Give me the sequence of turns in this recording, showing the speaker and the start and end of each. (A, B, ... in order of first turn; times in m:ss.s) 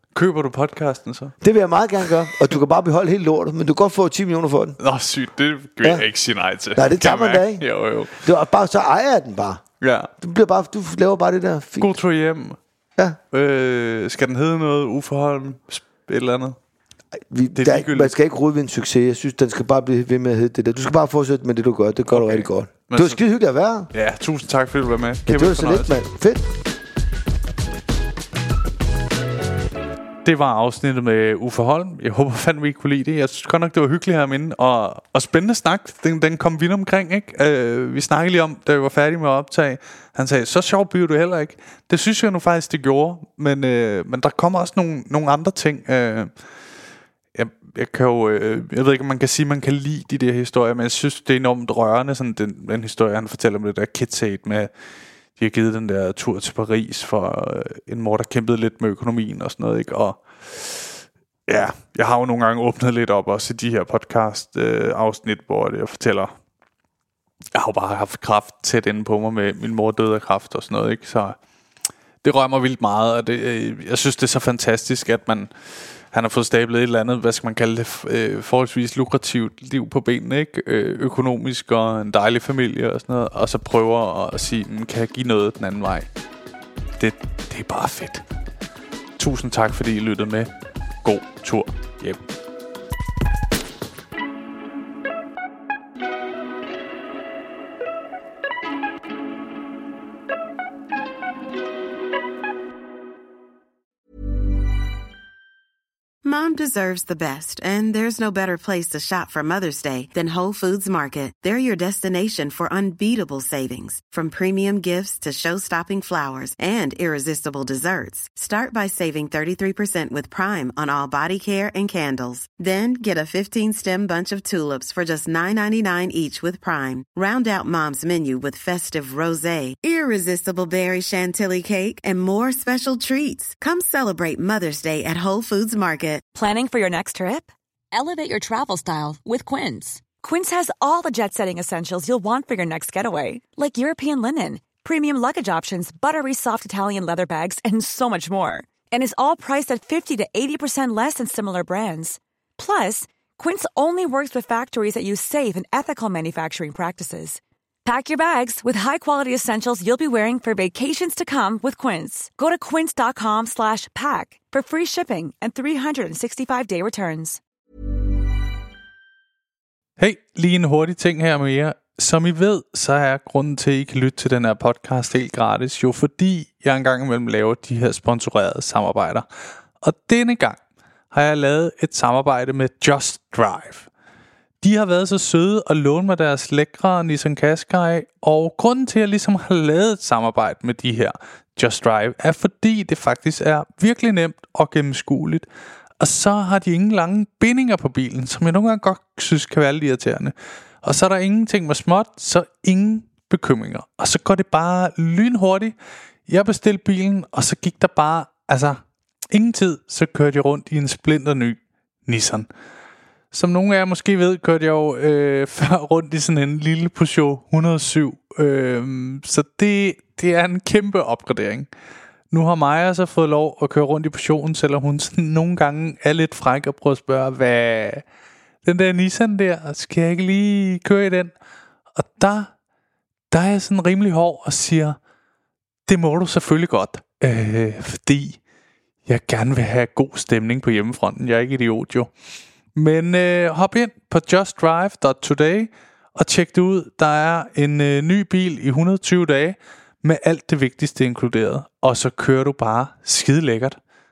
0:00.1-0:01.3 A
0:01.4-0:04.8 B
0:04.8-0:08.2 A
0:05.8-0:06.1 B
0:06.7-0:09.6 B
0:09.8-0:10.1 A
0:10.2-0:12.0 B
0:11.8-0:12.6 A
0:13.3-0:16.6 A
0:17.3-0:23.9 B
0:17.5-0:18.1 A
0:22.1-0:23.2 A
0:23.9-0:26.0 A
0:25.2-0:26.5 B
0:30.2-0:46.3 A
0:47.3-0:54.7 A
0:55.4-1:06.3 A
1:07.5-1:11.4 A
1:12.2-1:15.5 A
1:16.1-1:26.1 A
1:27.0-1:28.2 A
1:29.2-1:30.5 A
1:31.0-1:32.2 A
1:46.2-2:16.2 C
2:16.3-2:47.4 D
2:50.0-2:59.2 A
2:59.8-3:00.6 A
3:01.1-3:03.9 A
3:04.6-3:15.4 A
3:16.0-3:25.7 A
3:26.3-3:28.8 A
3:29.3-3:32.5 A
3:33.3-3:41.7 A
3:42.3-3:48.0 A
3:48.6-3:51.3 A
3:51.9-3:52.5 A
3:53.3-3:55.0 A
3:55.9-3:58.4 A
3:59.0-4:02.1 A
4:02.7-4:13.8 A